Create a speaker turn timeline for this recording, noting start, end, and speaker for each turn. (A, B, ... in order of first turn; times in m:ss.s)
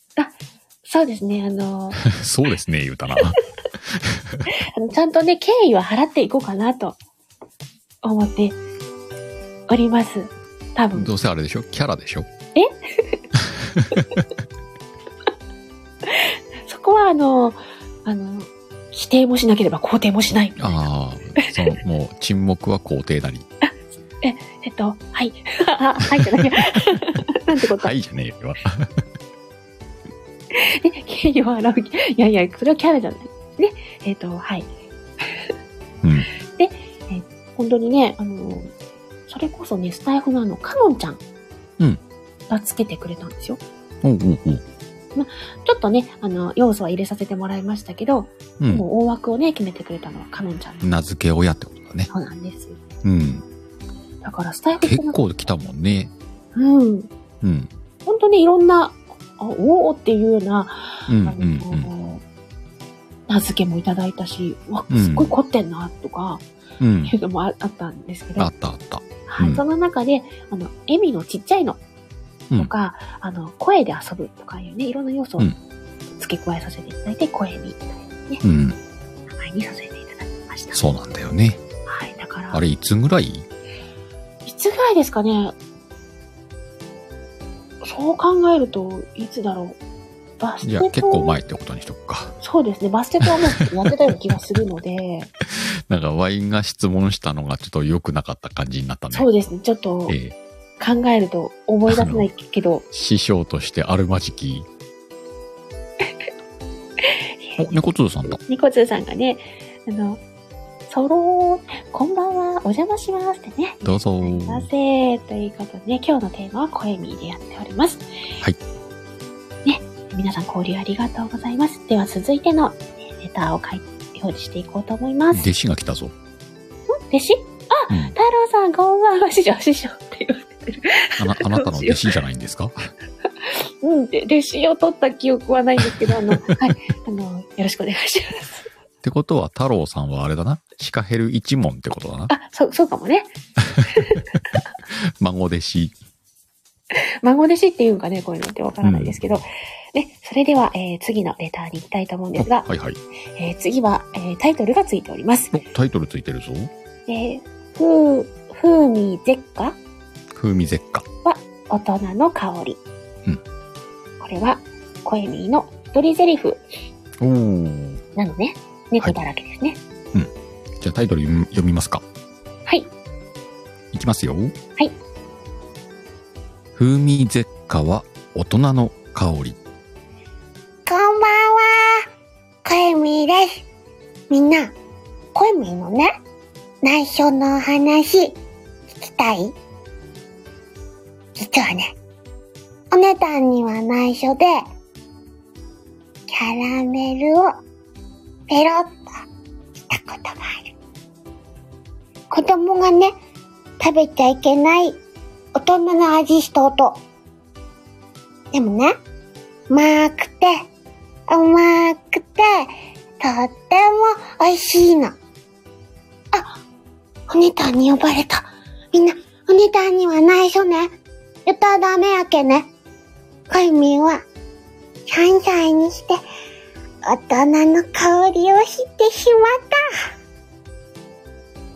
0:00.8-0:02.0 A
0:02.0-0:03.4 B
0:03.9-0:04.5 B
0:04.5-0:07.0 A
0:08.0-0:08.6 A
0:09.7-0:11.1 A
0:10.9-0:12.3 B
0:12.6-0:13.2 A
0:13.6-0:14.2 B
0:16.0-0:20.8 A
0:20.6-0:23.5 B
0:23.6-0:27.9 A
0:27.8-0:28.9 B
0:30.5-0:34.7 A
0:36.0-0:36.3 B
0:36.6-0:38.7 A
0:39.3-0:41.2 A
0:42.5-0:43.6 A
0:44.0-0:44.6 B
0:45.2-0:50.9 A
0:48.6-0:48.8 B
0:50.8-0:52.1 B
0:52.1-0:52.8 A
0:53.0-0:53.4 B
0:54.2-0:55.2 A
0:54.8-0:56.1 B
0:56.6-0:57.1 A
0:57.4-0:57.7 B
0:58.0-1:02.2 A
1:01.1-1:01.9 B
1:03.3-1:06.4 A
1:04.9-1:05.3 B
1:06.8-1:07.1 B
1:07.1-1:08.5 A
1:08.4-1:09.6 B
1:09.3-1:11.8 A
1:12.6-1:15.5 A
1:16.2-1:18.4 A
1:18.4-1:18.8 B
1:19.3-1:20.8 A
1:20.7-1:21.6 B
1:21.9-1:22.6 A
1:22.5-1:23.5 B
1:24.4-1:25.6 A
1:27.8-1:29.8 A
1:30.4-1:31.4 A
1:30.6-1:32.4 B
1:32.4-1:35.3 A
1:35.5-1:39.3 B
1:39.1-1:40.2 A
1:40.1-1:40.4 B
1:40.8-1:42.8 A
1:41.9-1:42.3 B
1:42.9-1:44.7 B
1:47.0-1:47.7 A
1:47.6-1:48.4 B
1:48.3-1:50.2 A
1:50.9-1:58.1 A
1:53.8-1:54.7 B
1:59.6-2:05.5 A
2:05.3-2:06.1 B
2:06.9-2:12.1 A
2:07.9-2:08.2 B
2:11.2-2:12.9 B
2:13.4-2:18.7 A
2:19.0-2:22.3 B
2:22.3-2:23.3 A
2:23.7-2:24.0 B
2:24.0-2:24.2 A
2:24.9-2:26.0 B
2:26.9-2:32.7 A
2:28.8-2:29.4 B
2:32.4-2:33.0 B
2:33.4-2:35.6 A
2:35.5-2:36.7 B
2:37.1-2:39.8 A
2:40.3-2:41.0 B
2:41.2-2:42.8 A
2:44.2-2:46.6 A
2:47.2-2:48.0 B
2:48.2-2:49.8 A
2:50.1-2:52.0 B
2:53.9-2:54.5 B
2:56.8-2:59.6 B
3:00.9-3:01.6 C
3:00.9-3:01.2 A
3:02.7-3:03.4 C
3:04.3-3:04.6 C
3:04.3-3:04.6 A
3:05.4-3:06.0 C
3:05.4-3:06.0 A
3:06.8-3:08.2 C
3:07.5-3:08.2 A
3:08.9-3:09.4 C
3:09.2-3:09.5 A
3:11.4-3:11.8 C
3:12.9-3:14.5 C
3:16.3-3:17.4 C
3:18.5-3:19.1 C
3:19.9-3:20.7 C
3:22.3-3:23.1 C
3:23.8-3:25.0 C
3:25.6-3:26.9 C
3:28.5-3:28.9 C
3:28.6-3:28.8 A
3:29.7-3:30.5 C
3:31.3-3:32.7 C
3:33.2-3:35.1 C
3:37.3-3:37.8 C
3:37.4-3:38.4 A
3:38.9-3:39.9 A
3:39.5-3:40.8 C
3:41.5-3:42.6 C
3:43.5-3:44.2 C
3:45.1-3:46.1 C
3:45.3-3:45.9 A
3:47.1-3:49.4 C
3:47.3-3:47.8 A
3:49.1-3:49.6 A